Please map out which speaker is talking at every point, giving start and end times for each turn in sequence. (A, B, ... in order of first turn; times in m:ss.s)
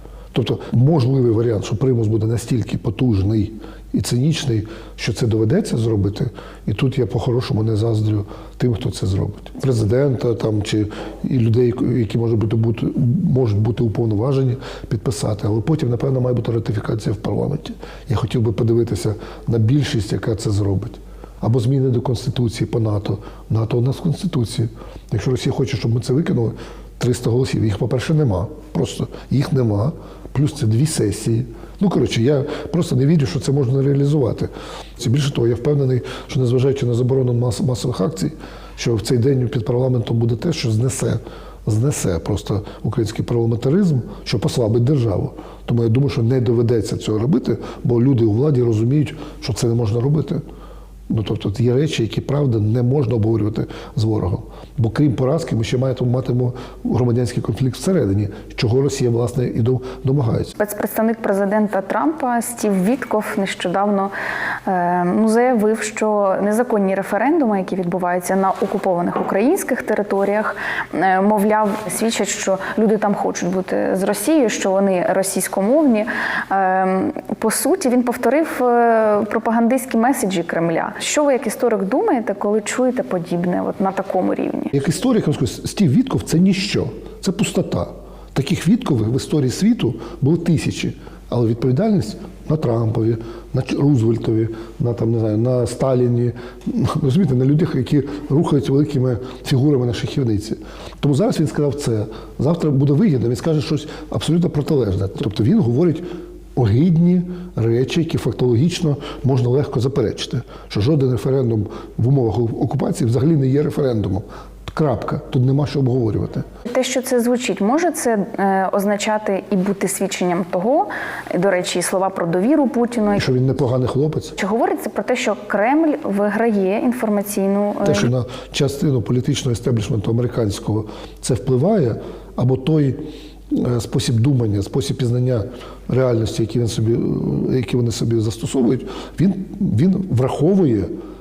0:00.3-0:50.4 A
0:51.1-1:00.5 A
1:00.6-1:04.1 B
1:04.6-1:24.7 B
1:24.7-1:56.5 A
1:56.7-2:03.2 B
2:03.2-2:04.4 A
2:04.4-2:08.1 B
2:07.8-2:20.9 A